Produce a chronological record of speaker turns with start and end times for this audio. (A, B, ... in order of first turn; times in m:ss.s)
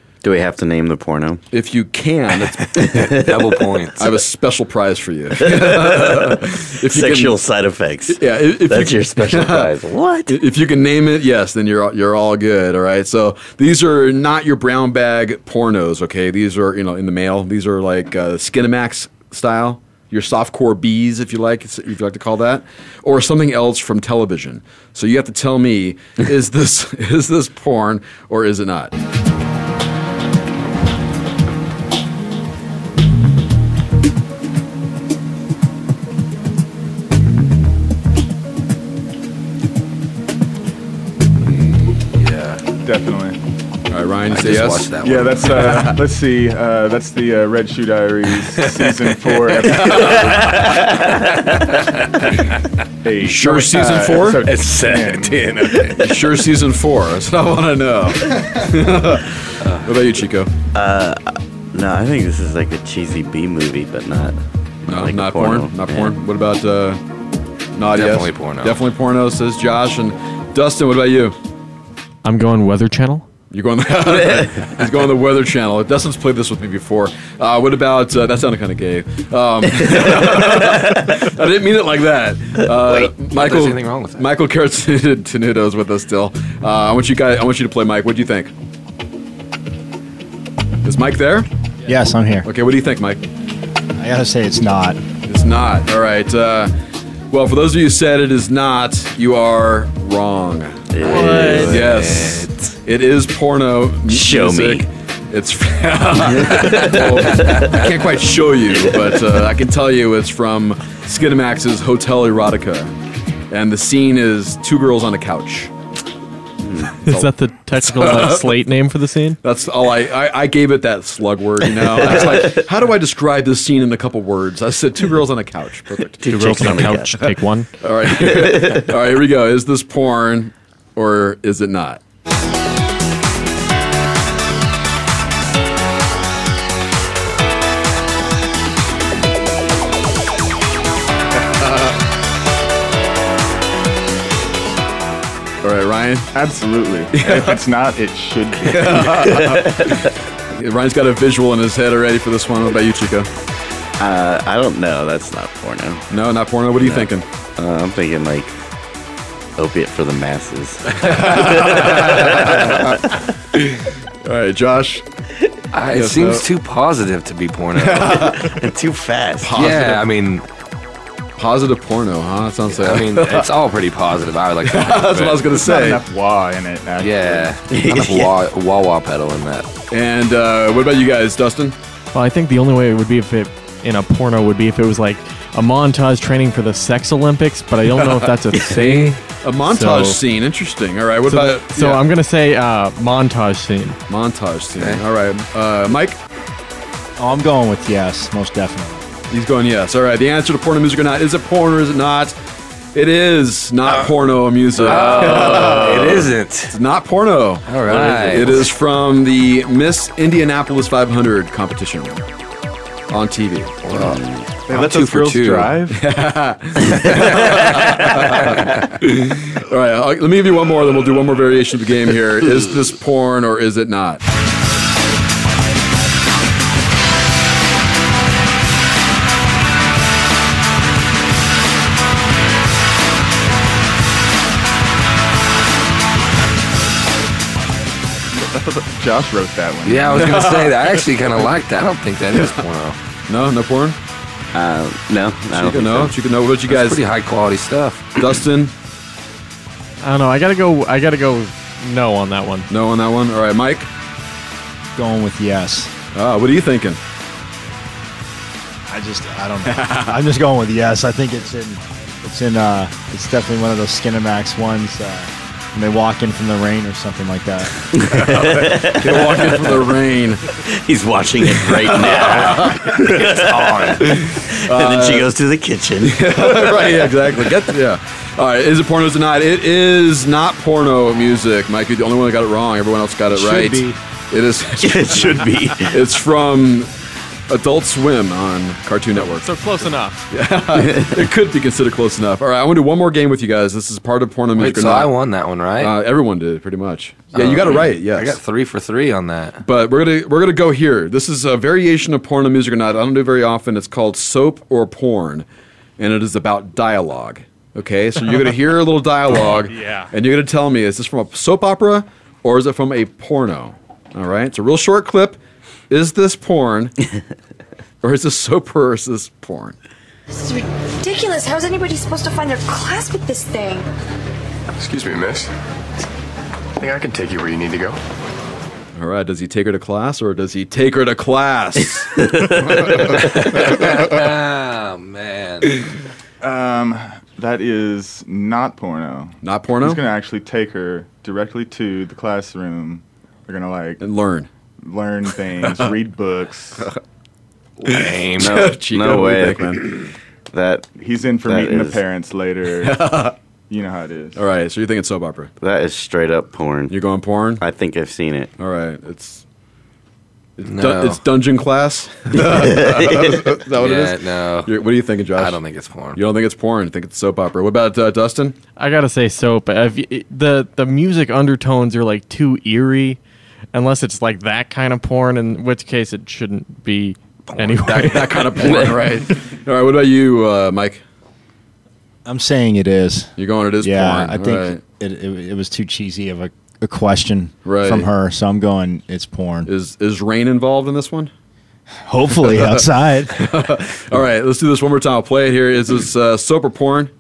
0:00.2-0:01.4 A
0:01.5-0:03.0 B
0:02.8-0:03.5 A
0:02.8-0:04.2 C
0:04.0-0:07.4 B
0:05.4-0:10.4 A
0:08.1-0:09.7 B
0:10.3-0:28.9 B
0:41.4-0:42.6 C
0:42.8-0:43.4 D
0:43.9-0:46.0 B
0:44.3-0:45.9 C
0:45.0-0:50.4 D
0:48.6-0:52.6 C
0:53.0-0:55.6 D
0:53.2-0:54.4 B
0:53.7-0:56.2 C
0:55.8-1:00.5 B
0:59.6-0:59.9 C
1:00.7-1:04.4 A
1:04.9-1:07.0 B
1:04.9-1:06.1 A
1:07.7-1:11.4 B
1:07.9-1:08.8 C
1:12.2-1:13.3 E
1:13.5-1:28.5 B
1:22.7-1:24.3 C
1:30.8-1:31.5 B
1:31.9-1:32.5 F
1:32.4-1:33.2 B
1:34.0-1:35.0 F
1:35.2-1:36.7 B
1:37.3-1:52.9 B
1:40.9-1:42.0 A
1:41.0-1:41.8 E
1:41.7-1:42.7 C
1:44.1-1:44.9 A
1:46.5-1:47.1 A
1:46.6-1:47.0 C
1:53.5-1:55.7 B
1:56.6-1:57.0 A
1:57.0-1:59.4 E
1:57.0-1:58.6 B
1:59.4-2:06.3 B
2:06.2-2:07.3 A
2:06.2-2:07.7 E
2:07.8-2:12.0 B
2:25.6-2:26.3 B
2:26.3-2:29.3 D
2:27.2-2:27.6 B
2:28.7-2:33.3 B
2:29.3-2:30.0 A
2:34.0-2:36.1 A
2:36.1-2:37.3 B
2:36.8-2:38.5 A
2:39.6-2:42.4 A
2:41.0-2:43.0 B
2:44.2-2:45.0 B
2:45.7-2:48.3 C
2:45.9-2:46.5 B
2:47.8-2:48.6 B
2:48.1-2:49.5 A
2:49.4-2:50.0 B
2:49.5-2:50.5 C
2:51.4-2:53.5 B
2:52.6-2:55.5 C
2:54.6-2:56.0 B
2:55.5-2:57.6 D
2:57.0-2:59.7 C
2:57.7-2:58.3 A
2:59.9-3:01.8 B
3:02.1-3:10.2 E
3:08.6-3:12.0 B
3:11.2-3:14.0 E
3:14.1-3:16.2 B
3:14.8-3:15.0 C
3:17.2-3:19.0 F
3:19.3-3:22.4 B
3:22.9-3:32.2 B
3:23.9-3:24.1 C
3:24.8-3:26.8 C
3:27.7-3:28.7 C
3:33.1-3:33.8 B
3:33.8-3:34.2 C
3:33.9-3:34.5 A
3:34.6-3:36.0 D
3:34.7-3:35.8 C
3:35.9-3:44.2 B
3:37.3-3:38.7 C
3:58.3-4:00.4 D
3:59.8-4:03.0 C
4:00.1-4:01.0 B
4:03.3-4:04.0 B
4:04.5-4:06.1 A
4:05.5-4:07.0 B
4:06.7-4:08.1 C
4:08.2-4:08.7 B
4:10.0-4:12.7 E
4:12.7-4:13.9 B
4:15.0-4:15.9 F
4:16.1-4:17.0 B
4:18.9-4:27.9 F
4:28.0-4:29.8 A
4:28.3-4:30.5 B
4:30.6-4:37.6 A
4:31.7-4:33.4 B
4:34.0-4:35.3 B
4:36.0-4:46.9 B
4:43.3-4:43.9 F
4:44.8-4:46.1 A
4:47.5-4:55.2 B
4:49.2-4:50.3 E
4:54.5-4:55.9 C
4:55.8-4:58.4 B
4:57.3-4:59.6 C
4:59.6-5:05.4 B
5:06.0-5:15.4 B
5:15.9-5:17.0 B
5:18.0-5:19.8 B
5:20.3-5:23.9 G
5:24.8-5:25.5 H
5:26.8-5:28.0 H
5:29.0-5:32.1 B
5:32.1-5:32.8 A
5:32.7-5:35.9 C
5:36.4-5:44.0 D
5:39.4-5:40.0 B
5:44.0-5:44.5 B
5:44.8-5:46.9 D
5:45.6-5:46.0 B
5:47.9-5:48.7 C
5:47.9-5:50.1 B
5:48.4-5:50.0 A
5:50.5-5:50.9 A
5:51.0-5:53.1 D
5:51.4-5:52.0 A
5:52.8-5:53.4 B
5:53.7-5:54.4 D
5:54.4-5:55.5 B
5:55.6-5:57.0 A
5:56.9-5:57.6 B
5:57.6-5:58.5 A
5:58.6-5:59.4 B
6:00.6-6:05.6 B
6:00.6-6:01.2 C
6:02.6-6:03.5 A
6:03.8-6:04.7 C
6:05.3-6:06.2 C
6:06.1-6:08.6 B
6:08.8-6:13.2 E
6:13.7-6:18.9 E
6:17.6-6:18.2 C
6:17.8-6:21.0 B
6:22.2-6:29.7 F
6:23.4-6:24.8 B
6:27.6-6:28.1 B
6:29.6-6:31.3 B
6:32.1-6:33.4 F
6:32.4-6:37.1 B